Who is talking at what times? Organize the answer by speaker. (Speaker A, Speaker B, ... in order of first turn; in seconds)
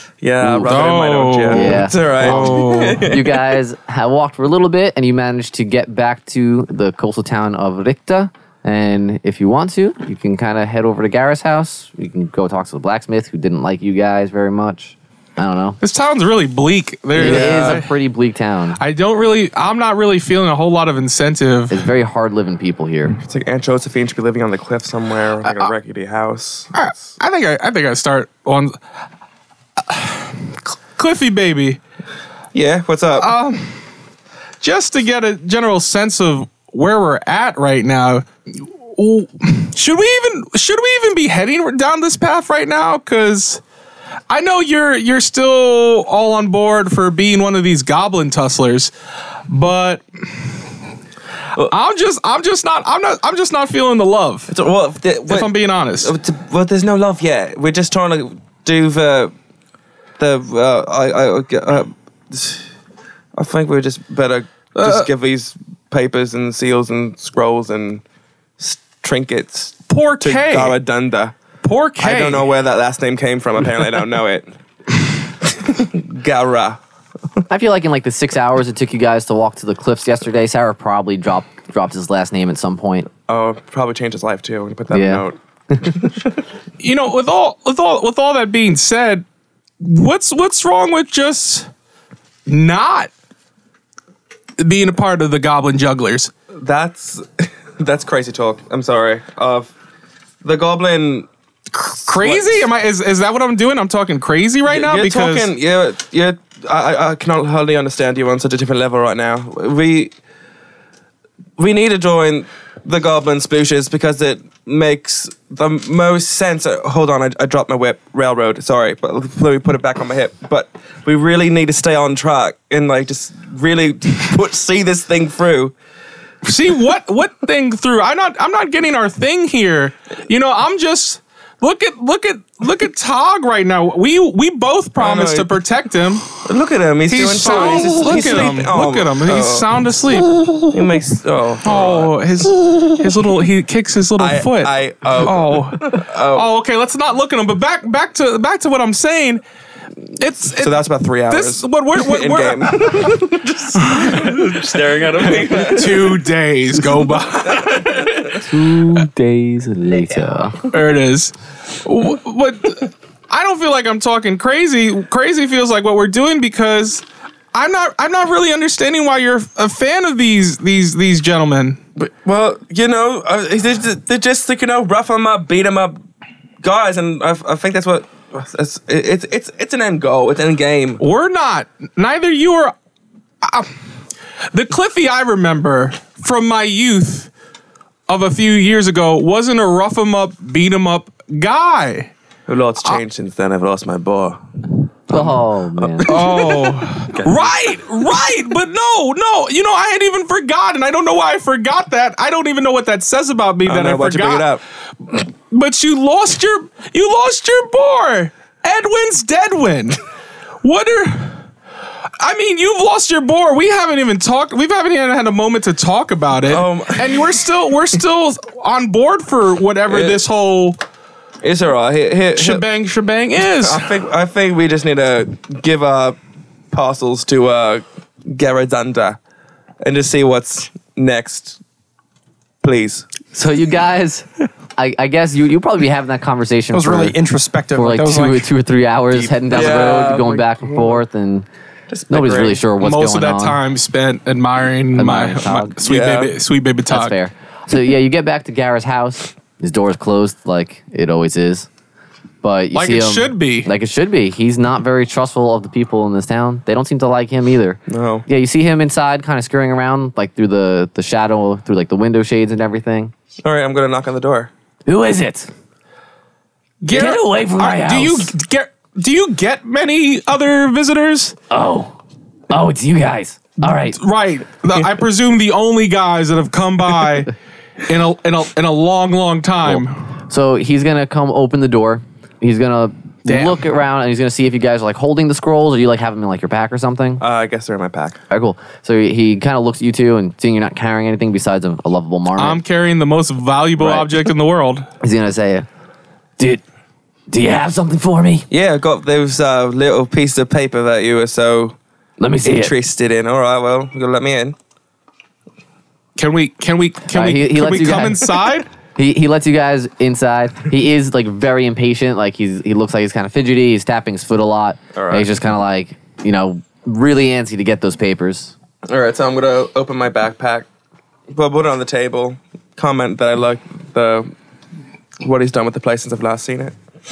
Speaker A: 0.2-3.4, 17.2-17.8, 23.2-26.7, 32.5-33.3, 54.5-59.3, 60.2-62.7, 63.3-68.0, 68.6-71.3, 72.0-74.5, 75.4-76.8, 83.3-86.3, 96.5-99.7, 100.4-102.7, 104.7-110.1, 111.6-125.7, 135.0-135.6, 136.4-139.9, 140.7-142.2, 144.2-146.5, 150.5-156.2, 157.5-158.0, 171.9-176.0, 176.6-181.0, 192.5-194.4, 195.1-196.9, 203.7-204.6, 216.4-217.4, 219.9-220.2, 221.4-222.6, 223.6-226.2, 226.7-229.2, 229.8-231.6, 232.6-233.1, 239.4-241.0, 241.9-242.6, 245.8-246.3, 257.9-258.2, 263.4-264.5, 287.2-288.2, 298.5-301.8, 302.4-304.6, 314.9-315.3, 318.9-320.6, 321.3-324.3, 325.2-326.7
Speaker B: 0.6-3.0, 15.8-17.9, 18.8-21.8, 26.7-28.7, 29.8-31.8, 33.2-33.8, 34.6-43.6, 44.3-48.9, 49.5-50.0, 51.6-54.5, 55.3-56.1, 64.8-65.1, 69.9-70.8, 71.6-72.5, 86.8-89.2, 89.8-91.7, 92.5-93.1, 94.6-96.3, 101.8-105.5, 126.4-136.3, 137.1-140.3, 141.6-149.4, 150.2-153.1, 153.8-154.6, 155.1-158.3, 160.7-171.8, 181.0-182.7, 183.4-183.7, 184.5-187.3, 188.1-192.1, 196.0-204.5, 205.1-210.0, 210.6-211.4, 212.2-220.8, 222.3-224.0, 242.8-247.2, 252.7-253.7, 266.8-271.4, 273.6-277.3, 277.9-279.9, 283.3-283.6, 292.4-294.9, 306.2-308.7
Speaker C: 1.5-15.8, 17.1-18.8, 21.7-23.2, 77.5-83.1, 84.9-85.8, 158.3-160.6, 195.1-196.1, 233.3-237.2, 237.7-241.4, 242.1-243.6, 244.9-245.8, 246.9-251.7, 252.4-263.1, 264.9-265.5, 266.9-268.3, 271.5-271.9, 272.5-274.0, 279.6-287.2, 288.3-292.6, 293.8-294.1, 295.0-295.7, 296.4-296.6, 297.3-298.5, 302.2-302.7, 307.1-308.2, 308.9-318.5
Speaker D: 137.4-138.7, 236.7-238.5